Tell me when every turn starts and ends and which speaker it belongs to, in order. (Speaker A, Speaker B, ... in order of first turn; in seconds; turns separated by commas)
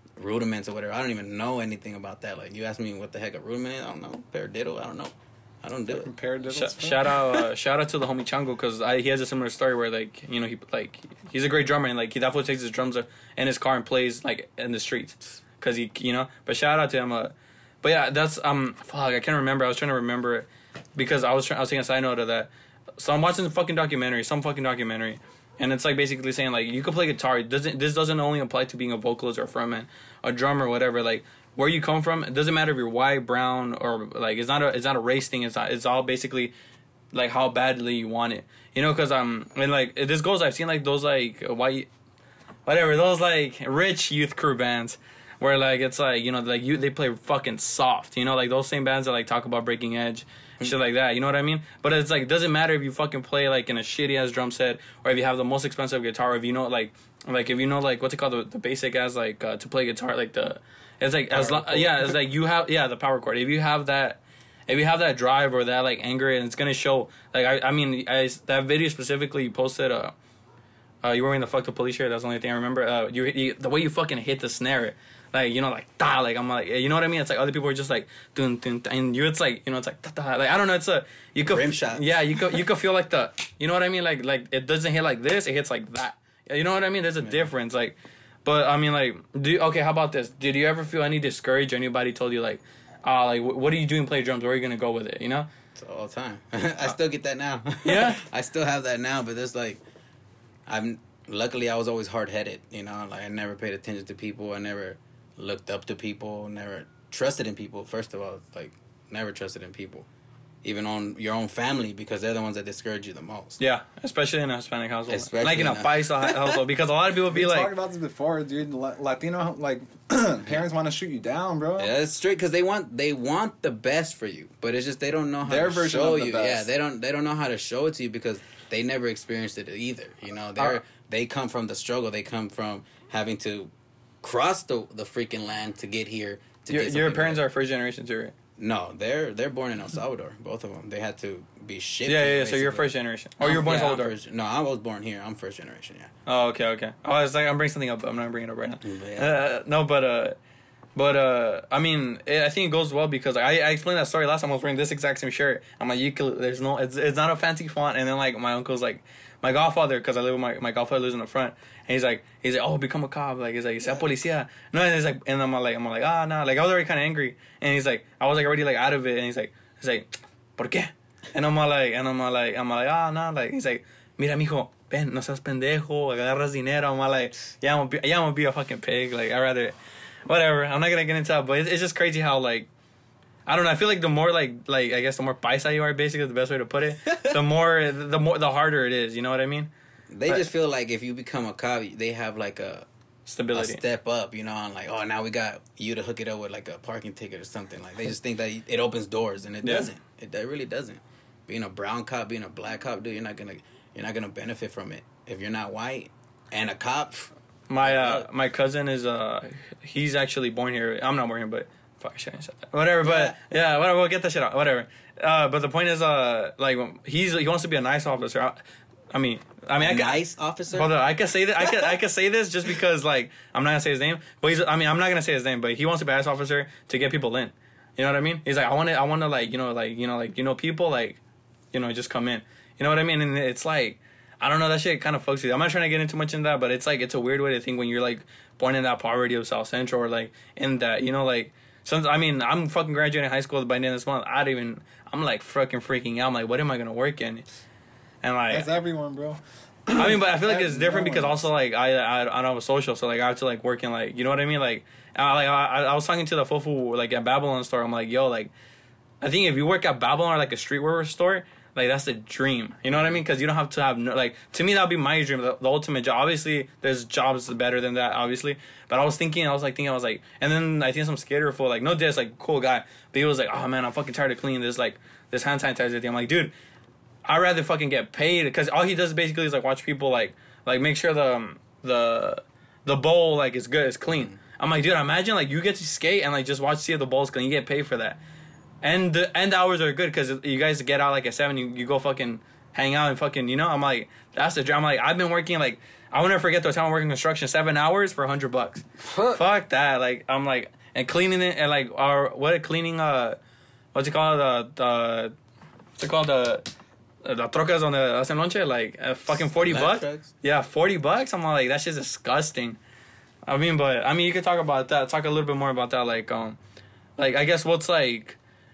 Speaker A: 0.2-6.1, Speaker B: 5.9-7.2, Speaker C: 6.5-36.5, Speaker C: 37.1-41.9, Speaker C: 42.6-70.1, Speaker A: 61.3-61.9, Speaker B: 61.5-61.9, Speaker C: 71.0-95.5, Speaker A: 81.4-82.2, Speaker A: 87.2-87.5, Speaker A: 95.8-99.8, Speaker C: 97.8-98.2, Speaker A: 100.7-110.1, Speaker A: 110.6-113.6, Speaker C: 113.6-117.7, Speaker A: 115.1-116.6, Speaker B: 117.3-121.9, Speaker A: 121.8-133.7, Speaker B: 125.4-126.7, Speaker A: 134.2-137.4, Speaker C: 136.7-138.3, Speaker A: 138.6-146.1, Speaker C: 142.1-144.1, Speaker C: 146.2-150.4, Speaker A: 148.8-149.4, Speaker C: 150.9-179.7, Speaker C: 180.2-182.7, Speaker C: 183.5-189.7, Speaker A: 190.1-192.9, Speaker C: 193.2-193.8, Speaker A: 193.5-208.3, Speaker C: 199.6-199.9, Speaker C: 207.7-218.6, Speaker A: 213.0-213.3, Speaker C: 219.1-220.2, Speaker A: 219.8-220.9, Speaker C: 220.7-231.2, Speaker C: 231.7-247.4, Speaker C: 248.2-248.7, Speaker B: 248.5-251.4, Speaker C: 249.9-258.5, Speaker C: 259.2-276.5, Speaker C: 277.2-288.2, Speaker A: 284.1-284.4, Speaker C: 288.8-303.4, Speaker A: 299.0-299.4, Speaker C: 303.9-305.3, Speaker C: 306.0-306.6, Speaker C: 307.2-312.8, Speaker A: 309.4-310.3, Speaker C: 313.5-316.6, Speaker C: 317.2-318.4